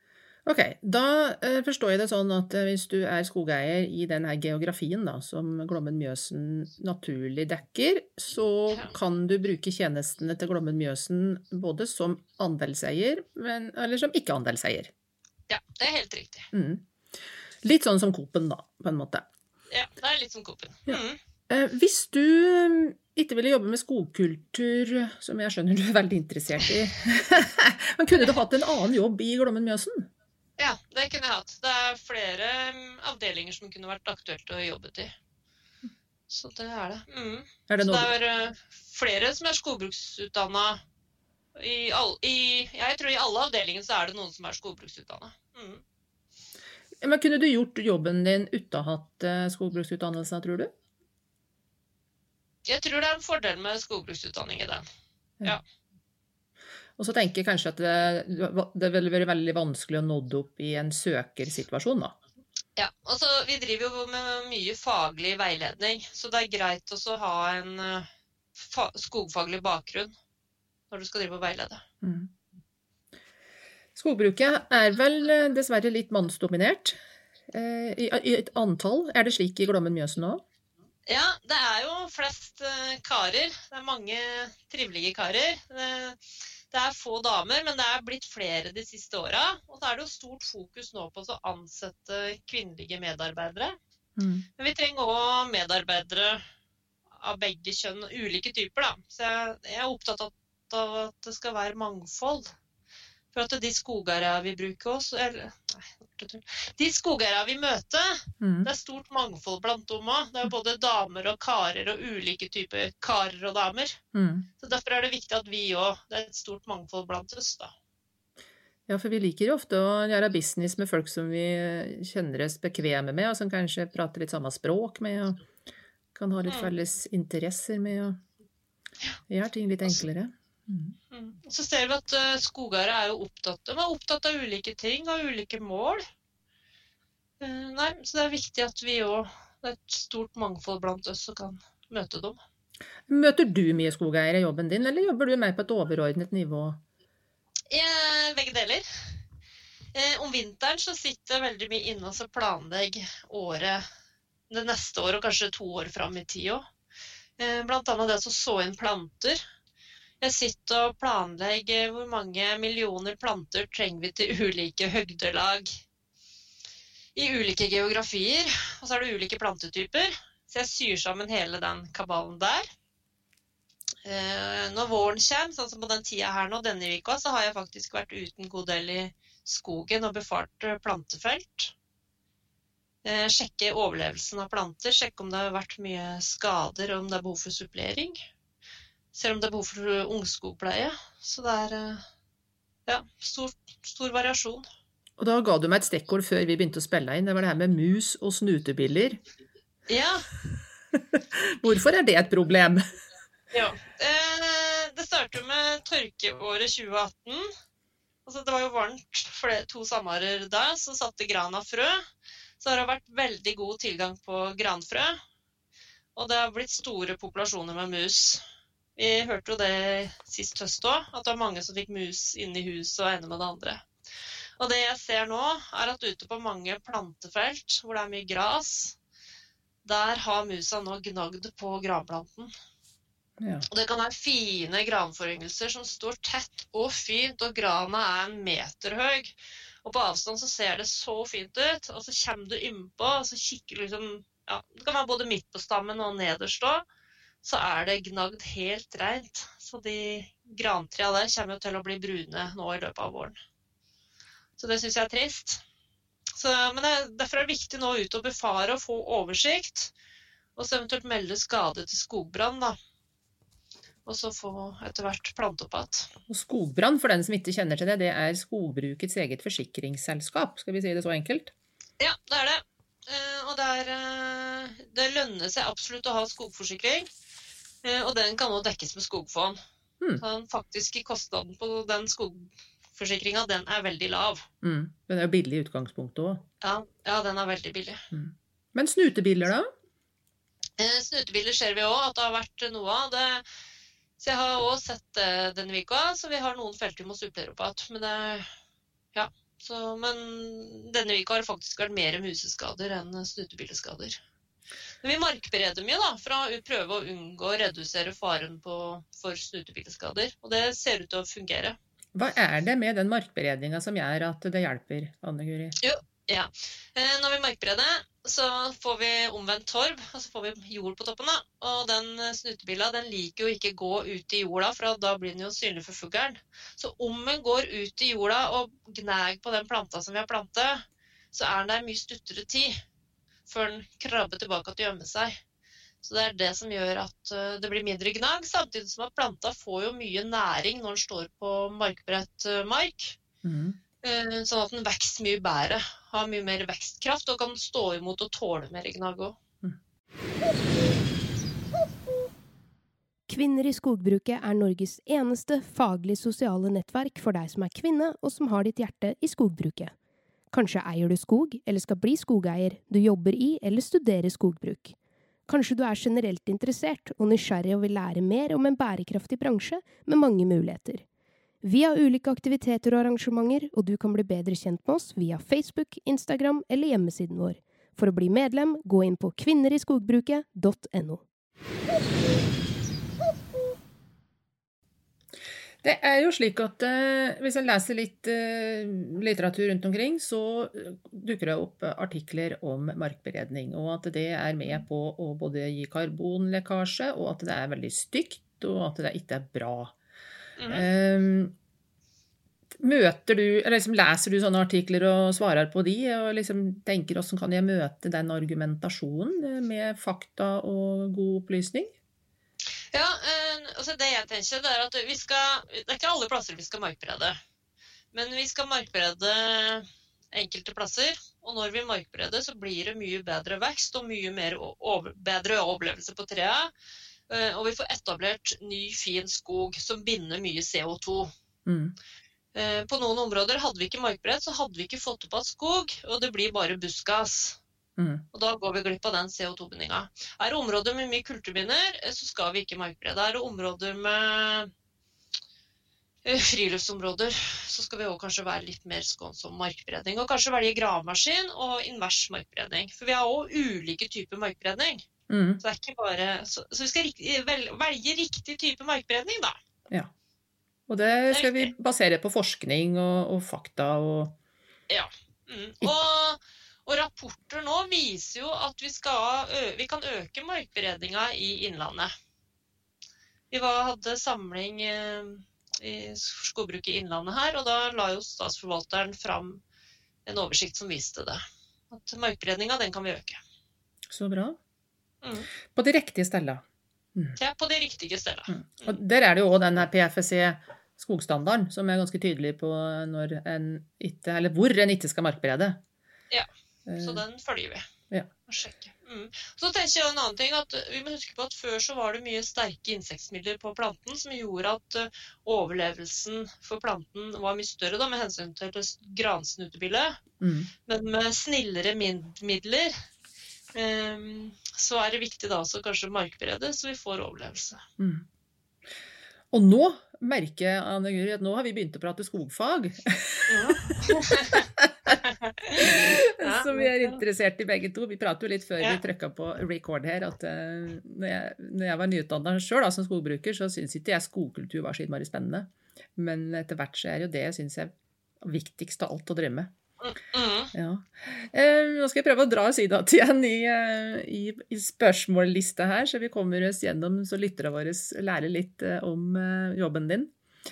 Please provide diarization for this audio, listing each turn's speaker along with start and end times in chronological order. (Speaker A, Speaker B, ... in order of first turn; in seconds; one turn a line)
Speaker A: 0.5-14.9
Speaker B: 15.5-16.5
Speaker A: 16.5-16.9
Speaker A: 17.6-19.3
Speaker B: 19.7-21.2
Speaker A: 20.9-30.1
Speaker B: 30.6-35.1
Speaker B: 36.3-40.8
Speaker A: 37.7-38.1
Speaker B: 41.6-45.8
Speaker A: 47.0-50.7
Speaker B: 52.7-54.9
Speaker A: 57.0-62.1
Speaker B: 62.8-70.2
Speaker B: 70.9-71.8
Speaker A: 72.0-72.3
Speaker A: 74.0-77.0
Speaker A: 77.5-80.4
Speaker B: 81.1-86.2
Speaker B: 86.7-93.8
Speaker A: 94.2-94.5
Speaker B: 94.6-96.4
Speaker B: 97.2-102.5
Speaker B: 103.3-114.0
Speaker A: 108.4-108.7
Speaker A: 114.1-114.5
Speaker B: 114.6-117.7
Speaker A: 118.9-125.4
Speaker A: 126.2-128.2
Speaker B: 126.5-126.7
Speaker A: 129.3-131.0
Speaker B: 131.1-136.1
Speaker B: 137.4-142.4
Speaker A: 143.1-146.8
Speaker B: 147.7-148.8
Speaker B: 149.9-153.8
Speaker B: 154.5-156.6
Speaker B: 157.4-159.4
Speaker B: 160.2-165.8
Speaker B: 167.2-172.7
Speaker B: 174.1-181.7
Speaker B: 183.0-188.2
Speaker B: 189.1-192.1
Speaker B: 192.9-194.7
Speaker A: 195.2-199.2
Speaker B: 199.9-200.3
Speaker A: 200.9-202.8
Speaker B: 203.5-207.5
Speaker B: 208.3-212.1
Speaker B: 212.6-215.2
Speaker B: 216.2-218.4
Speaker B: 219.0-223.8
Speaker B: 224.6-229.0
Speaker B: 229.8-232.5
Speaker A: 233.4-233.7
Speaker B: 233.7-246.8
Speaker B: 247.4-253.4
Speaker B: 254.6-255.6
Speaker B: 256.3-259.9
Speaker B: 260.6-262.8
Speaker B: 264.1-266.1
Speaker A: 266.3-271.5
Speaker B: 272.0-277.1
Speaker B: 277.8-279.6
Speaker B: 280.2-284.5
Speaker A: 284.6-286.4
Speaker B: 286.6-288.0
Speaker A: 288.1-289.7
Speaker B: 290.8-293.4
Speaker B: 294.2-298.5
Speaker B: 299.1-304.2
Speaker B: 305.0-311.8
Speaker A: 312.1-315.8
Speaker B: 315.8-332.8
Speaker B: 333.5-335.4
Speaker B: 336.0-343.2
Speaker A: 343.4-343.8
Speaker B: 344.0-349.4
Speaker C: 353.3-359.9
Speaker C: 360.5-364.9
Speaker C: 365.5-371.1
Speaker C: 371.6-381.2
Speaker A: 385.8-399.9
Speaker B: 400.6-400.9
Speaker A: 400.7-401.6
Speaker A: 402.8-411.9
Speaker B: 412.9-417.4
Speaker B: 418.1-426.7
Speaker B: 427.3-431.3
Speaker A: 431.7-431.9
Speaker B: 432.5-437.6
Speaker A: 438.0-438.2
Speaker B: 438.3-444.7
Speaker B: 446.2-455.0
Speaker A: 455.3-455.6
Speaker B: 455.6-459.6
Speaker A: 460.9-464.4
Speaker B: 461.3-461.7
Speaker B: 464.9-472.1
Speaker B: 473.5-479.6
Speaker B: 480.3-483.4
Speaker A: 484.1-484.6
Speaker B: 485.2-485.5
Speaker A: 485.7-486.6
Speaker B: 487.4-489.0
Speaker A: 488.5-495.8
Speaker A: 496.9-497.2
Speaker B: 497.0-497.9
Speaker B: 498.5-510.2
Speaker A: 510.4-510.7
Speaker B: 510.9-512.9
Speaker B: 513.7-517.8
Speaker A: 518.0-518.2
Speaker A: 519.5-524.0
Speaker B: 523.5-524.7
Speaker A: 524.5-525.2
Speaker B: 525.2-527.2
Speaker A: 525.8-539.7
Speaker B: 540.0-540.7
Speaker A: 540.7-550.3